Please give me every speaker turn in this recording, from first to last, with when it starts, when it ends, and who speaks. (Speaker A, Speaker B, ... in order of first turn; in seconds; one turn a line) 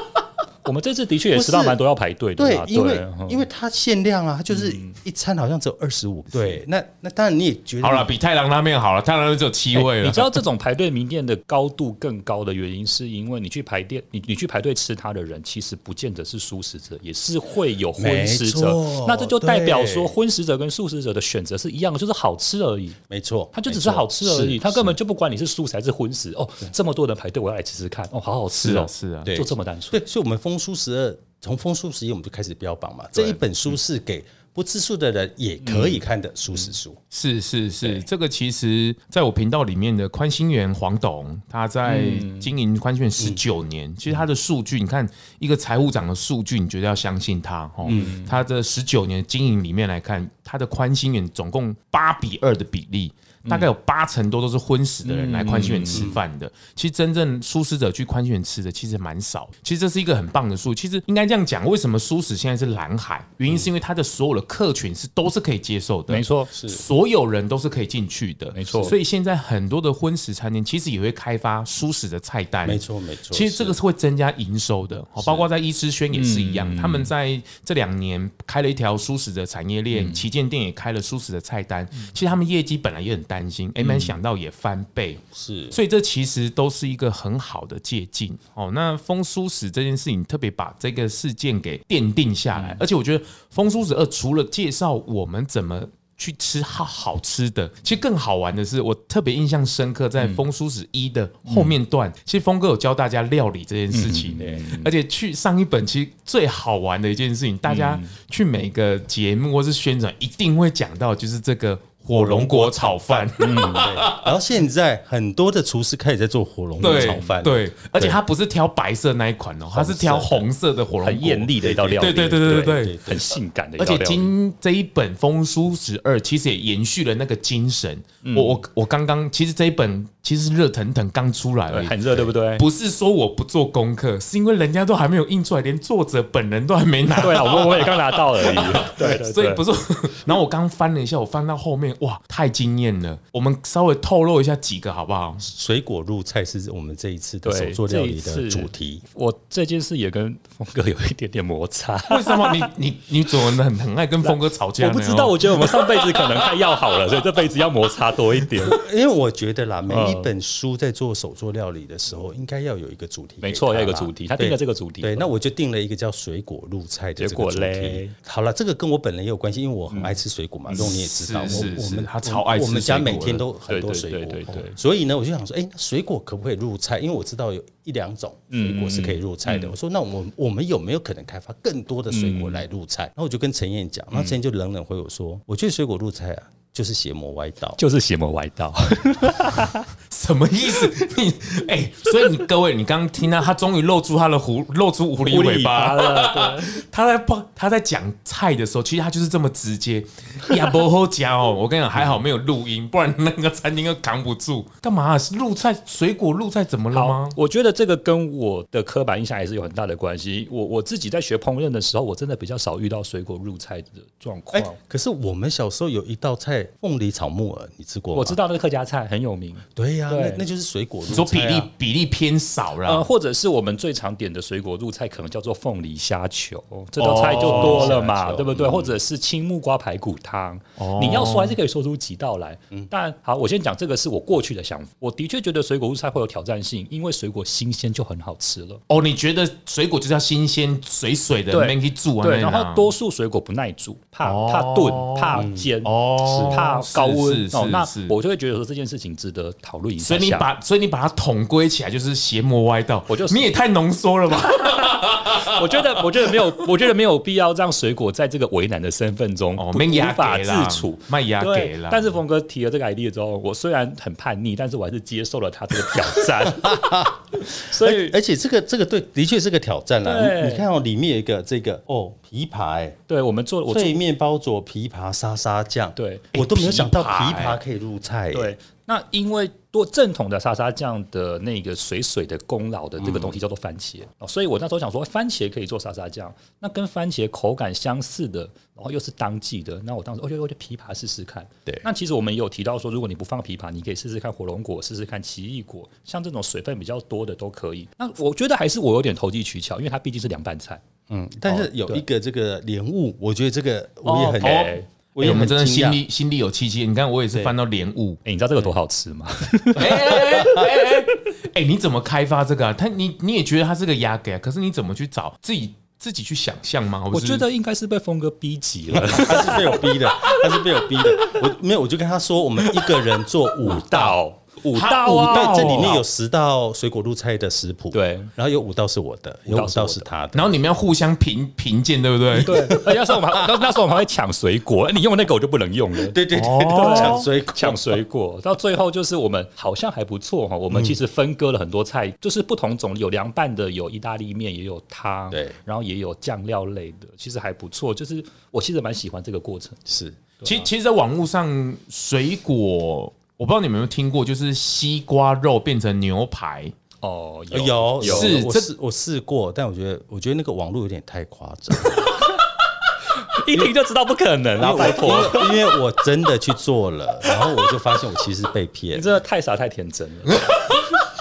Speaker A: 0.6-3.5
Speaker B: 1.3-1.8
Speaker B: 2.4-8.1
Speaker A: 4.5-5.0
Speaker C: 7.8-10.3
Speaker A: 9.7-23.0
Speaker B: 18.0-20.1
Speaker B: 23.1-24.9
Speaker A: 23.5-30.0
Speaker C: 28.5-29.3
Speaker B: 29.3-37.0
Speaker A: 35.6-36.0
Speaker C: 37.1-114.3
Speaker A: 41.8-42.5
Speaker B: 47.9-48.2
Speaker A: 47.9-48.4
Speaker A: 55.1-56.1
Speaker B: 55.7-56.2
Speaker A: 66.1-66.5
Speaker B: 66.5-66.8
Speaker A: 68.5-69.0
Speaker B: 72.6-73.8
Speaker B: 75.2-75.5
Speaker A: 76.1-77.1
Speaker A: 79.9-80.2
Speaker A: 83.8-84.1
Speaker B: 85.3-85.8
Speaker A: 92.5-92.8
Speaker A: 100.2-100.4
Speaker A: 101.5-101.7
Speaker A: 103.9-104.9
Speaker B: 104.4-104.7
Speaker A: 107.6-108.1
Speaker B: 112.1-118.2
Speaker A: 113.4-113.9
Speaker A: 116.8-117.3
Speaker C: 116.8-123.0
Speaker B: 119.7-120.5
Speaker A: 121.0-124.3
Speaker B: 121.6-123.2
Speaker C: 123.8-132.0
Speaker A: 128.2-128.6
Speaker A: 131.7-132.6
Speaker C: 132.6-145.4
Speaker A: 137.2-139.6
Speaker B: 145.4-149.0
Speaker A: 147.4-152.7
Speaker C: 152.1-156.5
Speaker A: 154.2-158.8
Speaker B: 158.6-187.8
Speaker A: 159.9-160.3
Speaker A: 163.4-165.3
Speaker A: 167.2-168.1
Speaker A: 169.9-170.2
Speaker C: 170.8-173.4
Speaker A: 173.7-174.8
Speaker A: 178.5-179.7
Speaker A: 182.1-182.6
Speaker A: 187.8-189.9
Speaker C: 190.1-207.3
Speaker A: 195.2-196.7
Speaker A: 206.9-214.8
Speaker B: 214.5-218.4
Speaker A: 218.1-220.4
Speaker B: 219.8-221.7
Speaker C: 221.1-223.1
Speaker A: 222.8-238.8
Speaker C: 227.0-227.9
Speaker B: 227.3-228.9
Speaker C: 230.8-231.6
Speaker C: 238.9-242.9
Speaker A: 241.5-250.5
Speaker C: 244.2-248.1
Speaker B: 245.3-246.6
Speaker C: 250.0-256.6
Speaker A: 253.1-253.5
Speaker A: 254.4-268.2
Speaker C: 259.6-262.2
Speaker B: 265.9-273.0
Speaker A: 270.0-270.7
Speaker A: 273.1-274.0
Speaker B: 273.7-278.5
Speaker A: 275.9-276.3
Speaker C: 276.3-277.6
Speaker A: 278.3-300.8
Speaker B: 283.0-283.4
Speaker B: 301.1-306.0
Speaker A: 301.5-302.0
Speaker A: 304.0-304.9
Speaker C: 304.4-308.2
Speaker A: 308.2-310.8
Speaker C: 309.7-317.4
Speaker B: 309.8-310.6
Speaker A: 317.1-321.4
Speaker B: 319.1-324.2
Speaker A: 322.6-323.1
Speaker A: 323.6-326.0
Speaker C: 324.7-326.0
Speaker B: 325.1-330.5
Speaker A: 327.9-328.3
Speaker A: 329.5-330.1
Speaker C: 330.3-332.7
Speaker B: 332.3-333.7
Speaker A: 332.4-336.2
Speaker B: 336.0-338.0
Speaker C: 336.3-337.2
Speaker A: 336.7-349.8
Speaker B: 340.7-341.0
Speaker B: 345.3-345.6
Speaker B: 349.9-350.2
Speaker A: 350.4-350.7
Speaker C: 350.4-356.7
Speaker A: 357.0-358.4
Speaker B: 357.5-362.1
Speaker C: 358.0-358.7
Speaker A: 363.2-365.8
Speaker B: 364.6-369.2
Speaker A: 367.3-367.7
Speaker A: 368.9-370.6
Speaker C: 370.3-370.8